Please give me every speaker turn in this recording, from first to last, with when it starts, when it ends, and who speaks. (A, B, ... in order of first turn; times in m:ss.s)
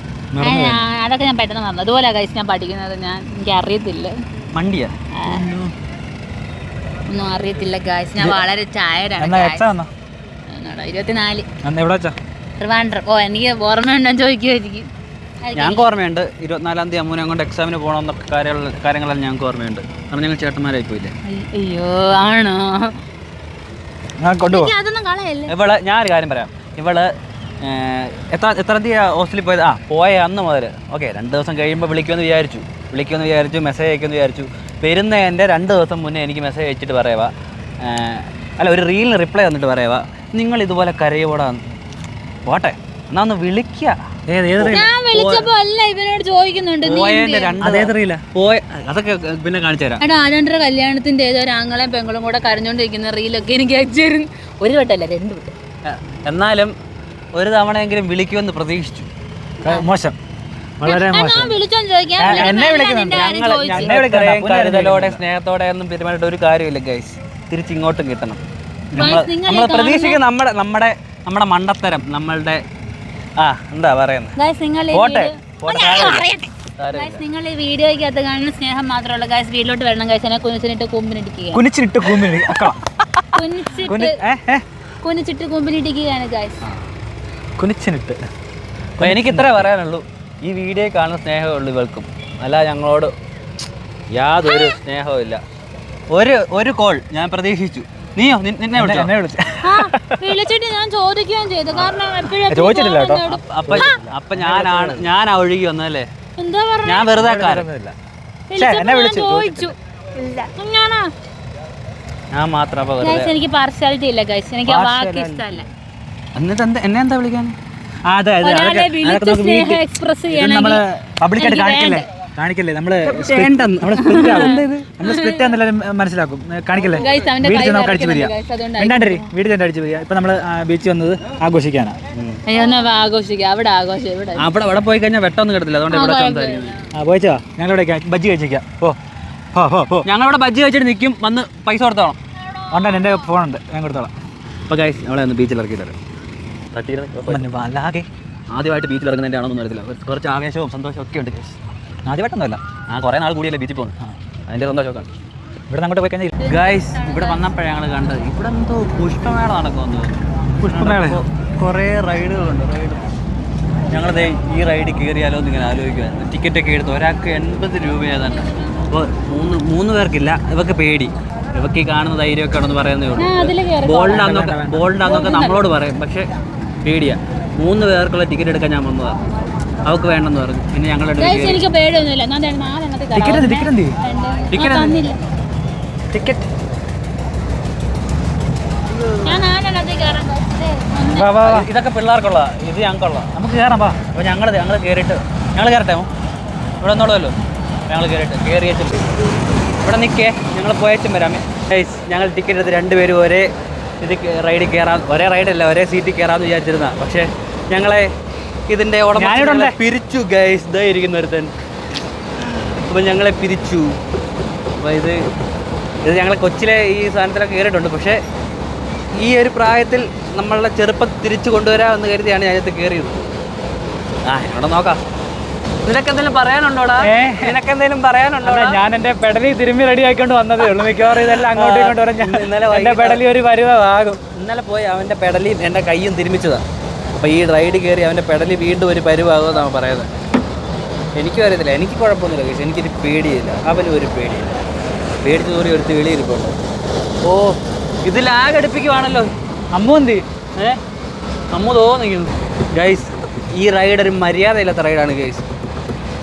0:00.3-0:00.8 A
0:00.4-0:04.1 B
0:04.5-0:04.9 C
0:05.1-0:05.5 B
0:05.2-0:05.7 A
0:07.1-0:09.7 B
0:09.2-0:09.9 A
0:10.5-0:11.4 B
0:11.6-0:12.1 A
0:12.6-0:14.9 B
0:15.4-0:15.9 B
0:15.5-0:21.1 C
0:21.2-0:23.0 B
0:24.2-0:24.7 A
0:24.5-0:25.5 B
0:25.5-0:27.1 C
0:27.6-0:41.6 C
0:42.4-0:44.0 C
0:44.3-0:44.9 A
0:44.6-0:45.5 C
0:44.7-0:47.6 B
0:46.8-0:50.0 C
0:47.6-0:48.2 A
0:50.0-0:55.5 B
0:55.8-0:56.7 C
0:57.3-0:59.1 C
0:59.6-1:00.2 A
1:00.8-1:01.6 A
1:00.8-1:03.9 B
1:02.2-1:05.2 A
1:02.2-1:08.4 C
1:08.9-1:09.2 A
1:08.9-1:10.2 B
1:08.9-1:12.6 C
1:13.4-1:14.4 C
1:14.4-1:21.6 B
1:14.9-1:16.2 C
1:16.8-1:17.2 C
1:21.5-1:23.2 A
1:23.3-1:24.2 B
1:23.8-1:24.6 A
1:25.0-1:26.6 B
1:27.6-1:28.2 A
1:29.0-1:29.7 A
1:29.0-1:33.1 C
1:34.1-1:35.4 C
1:34.5-1:34.8 B
1:36.1-1:39.1 C
1:38.7-1:40.3 A
1:39.6-1:44.0 B
1:42.4-1:45.1 A
1:43.3-1:46.1 C
1:46.4-1:47.1 B
1:46.8-1:47.7 C
1:47.2-1:47.9 A
1:48.5-1:51.1 B
1:48.6-1:49.7 A
1:52.3-1:53.3 C
1:53.0-1:55.7 B
1:54.7-1:55.4 A
1:56.3-1:57.6 C
1:58.0-2:12.0 A
1:58.4-2:00.8 B
2:01.4-2:02.1 B
2:03.1-2:04.2 C
2:03.2-2:05.5 B
2:06.9-2:09.3 B
2:12.1-2:12.4 C
2:12.5-2:14.5 B
2:14.4-2:16.8 C
2:15.9-2:16.8 B
2:16.9-2:19.0 A
2:19.5-2:20.0 A
2:20.0-2:22.2 C
2:22.7-2:24.1 A
2:24.7-2:26.0 C
2:26.7-2:27.5 C
2:27.3-2:28.1 A
2:28.5-2:31.6 C
2:32.0-2:32.6 A
2:32.9-2:34.0 C
2:34.5-2:35.1 C
2:35.7-2:36.4 A
2:36.4-2:37.4 B
2:36.5-2:43.1 C
2:40.6-2:41.2 A
2:43.9-2:56.3 C
2:53.2-2:54.4 B
2:54.1-2:54.9 A
2:55.0-2:55.6 B
2:56.8-2:59.2 C
2:59.8-3:01.6 C
3:01.2-3:05.2 B
3:03.1-3:04.0 A
3:04.5-3:04.9 C
3:06.1-3:06.5 A
3:09.0-3:09.4 C
3:09.2-3:11.4 B
3:11.1-3:11.7 A
3:11.4-3:13.3 C
3:13.3-3:14.0 A
3:14.1-3:16.1 C
3:16.8-3:17.4 C
3:17.9-3:19.0 C
3:19.8-3:23.5 C
3:24.0-3:28.1 C
3:28.7-3:31.5 C
3:29.1-3:29.8 A
3:32.9-3:34.0 C
3:34.8-3:35.2 C
3:36.0-3:38.2 C
3:39.1-3:43.2 C
3:44.2-3:45.0 C
3:45.8-3:48.8 C
3:47.0-3:47.6 A
3:48.4-3:54.2 A
3:51.0-3:53.2 C
3:54.3-3:56.6 C
3:57.2-4:00.1 C
4:01.2-4:04.6 C
4:05.2-4:06.6 C
4:07.2-4:09.3 C
4:09.7-4:10.2 A
4:11.5-4:15.4 C